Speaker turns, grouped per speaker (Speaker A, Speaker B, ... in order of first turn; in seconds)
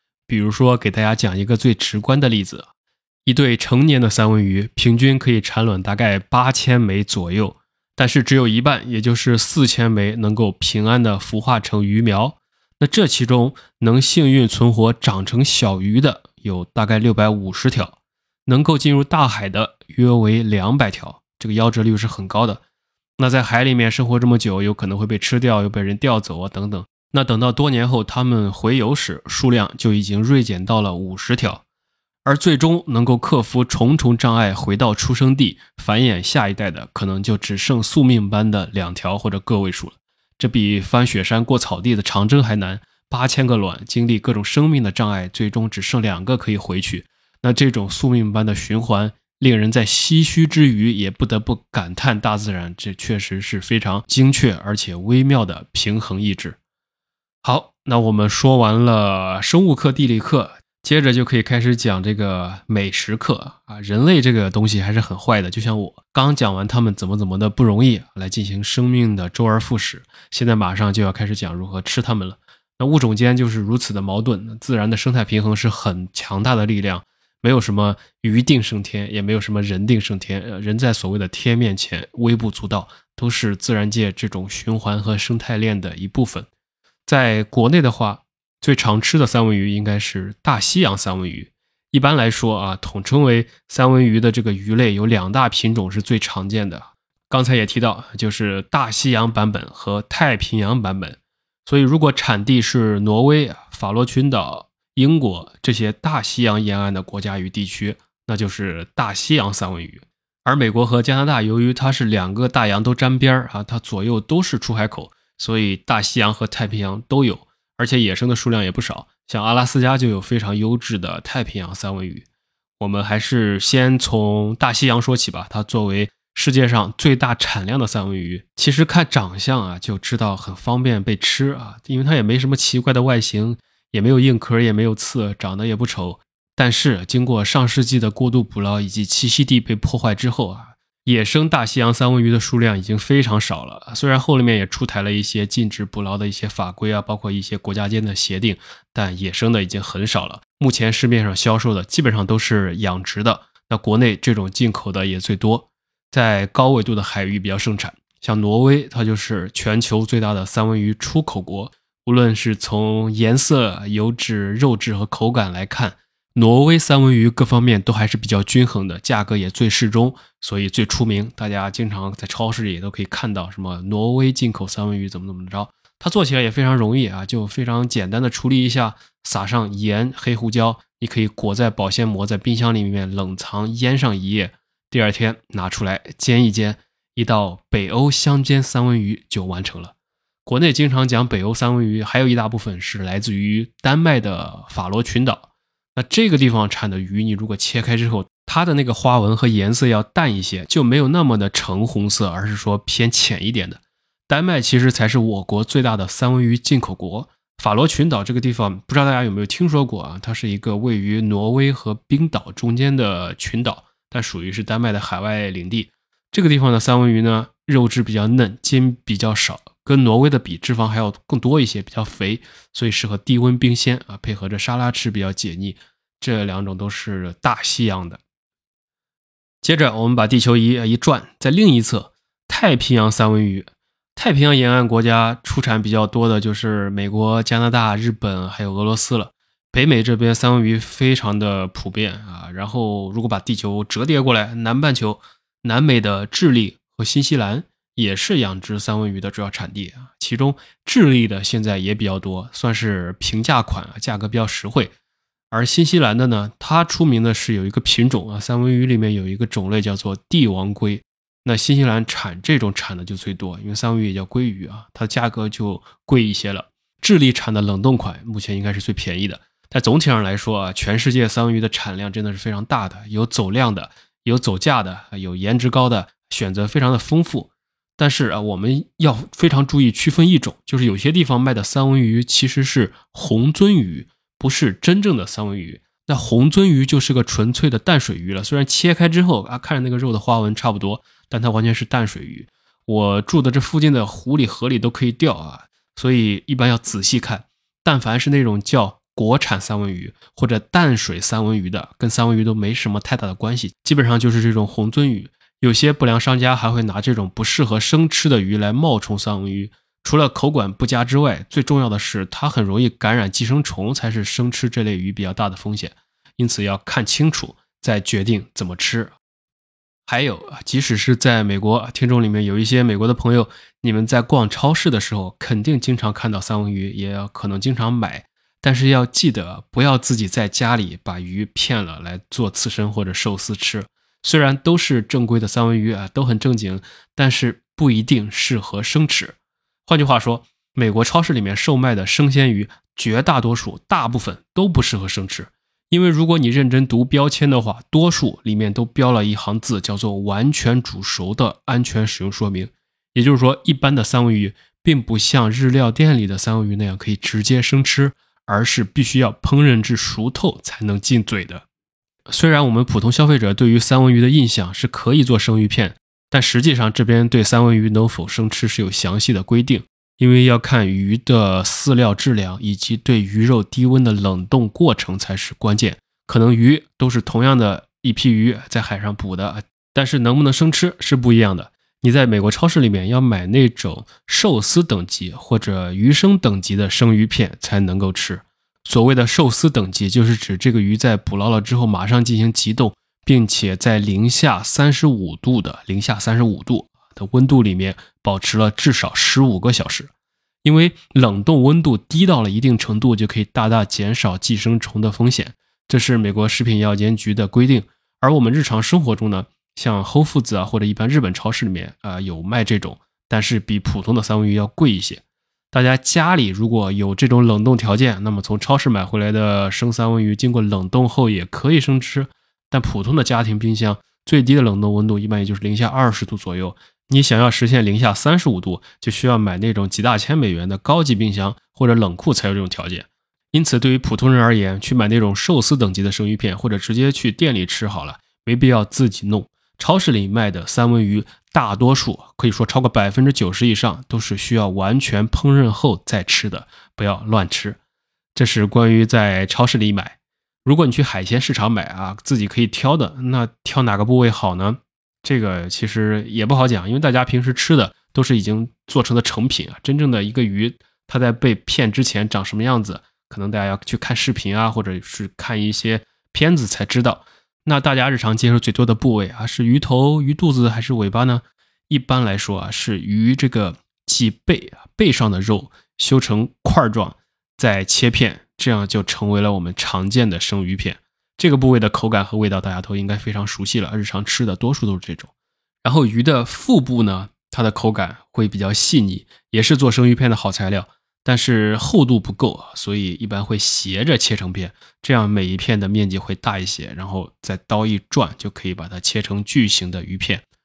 Speaker A: 0.3-2.7, 3.3-17.9, 18.5-22.6, 23.2-31.6, 32.2-56.6, 57.4-86.5, 87.1-122.3, 122.8-189.9, 190.4-228.2, 229.6-254.9, 255.5-319.1, 320.1-339.4, 339.9-361.6, 362.3-400.1, 400.6-447.8, 448.4-485.3, 485.8-500.4